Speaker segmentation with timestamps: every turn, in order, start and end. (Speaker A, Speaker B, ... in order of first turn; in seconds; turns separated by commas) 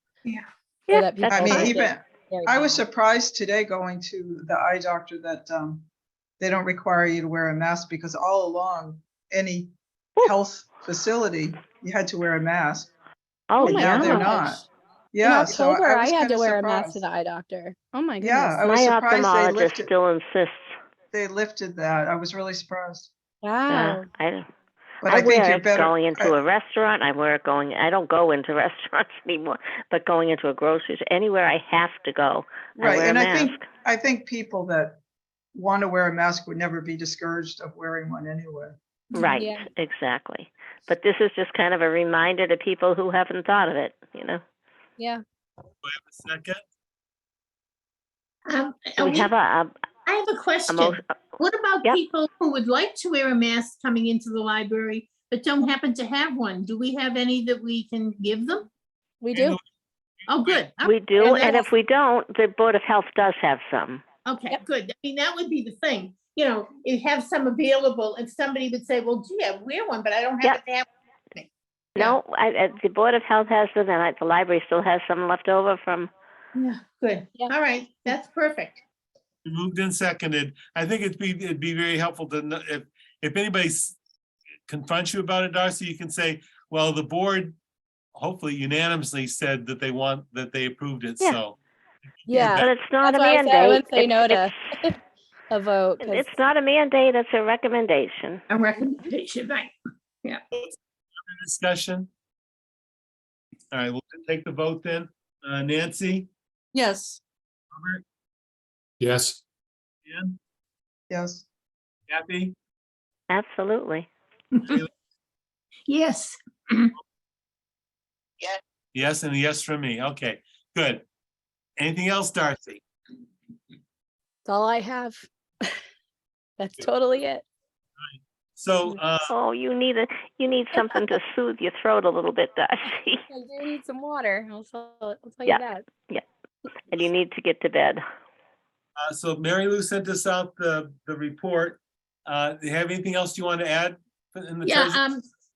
Speaker A: 0.9-1.8, Speaker B: 0.9-2.8, Speaker C: 1.3-5.8, Speaker C: 6.4-12.9, Speaker A: 13.5-14.3, Speaker B: 13.6-14.6, Speaker C: 13.6-17.0, Speaker B: 15.2-18.6, Speaker C: 18.2-19.9, Speaker A: 18.6-20.7, Speaker C: 21.1-23.1, Speaker B: 23.4-24.1, Speaker A: 23.7-24.5, Speaker C: 25.0-26.3, Speaker A: 25.1-33.6, Speaker C: 32.8-35.0, Speaker C: 35.5-38.8, Speaker A: 39.1-44.4, Speaker B: 39.3-39.6, Speaker D: 45.8-46.6, Speaker E: 48.5-49.3, Speaker A: 49.0-49.7, Speaker E: 50.1-58.7, Speaker A: 50.7-51.1, Speaker B: 59.2-59.6, Speaker D: 59.3-59.6, Speaker D: 60.2-60.7, Speaker E: 60.3-61.7, Speaker A: 60.8-64.0, Speaker E: 64.2-72.2, Speaker A: 72.0-76.1, Speaker E: 76.5-78.8, Speaker D: 79.5-84.0, Speaker D: 84.7-87.6, Speaker D: 88.1-91.6, Speaker D: 92.2-92.7, Speaker B: 92.3-95.0, Speaker A: 92.5-94.5, Speaker B: 95.5-96.3, Speaker A: 96.0-98.4, Speaker E: 98.5-99.7, Speaker E: 100.2-100.7, Speaker D: 101.2-102.1, Speaker D: 103.7-106.3, Speaker C: 106.7-107.2, Speaker D: 107.7-108.0, Speaker D: 109.0-109.4, Speaker D: 110.0-110.3, Speaker C: 111.1-111.4, Speaker D: 112.1-112.5, Speaker A: 113.3-114.1, Speaker E: 114.5-114.8, Speaker E: 115.9-116.9, Speaker D: 118.5-121.0, Speaker D: 121.8-122.8, Speaker B: 124.4-125.8, Speaker B: 126.6-127.4, Speaker D: 128.0-129.3, Speaker A: 129.3-133.2, Speaker B: 133.3-135.8, Speaker A: 135.4-136.2, Speaker A: 136.9-138.0, Speaker D: 139.0-145.0, Speaker E: 144.6-145.2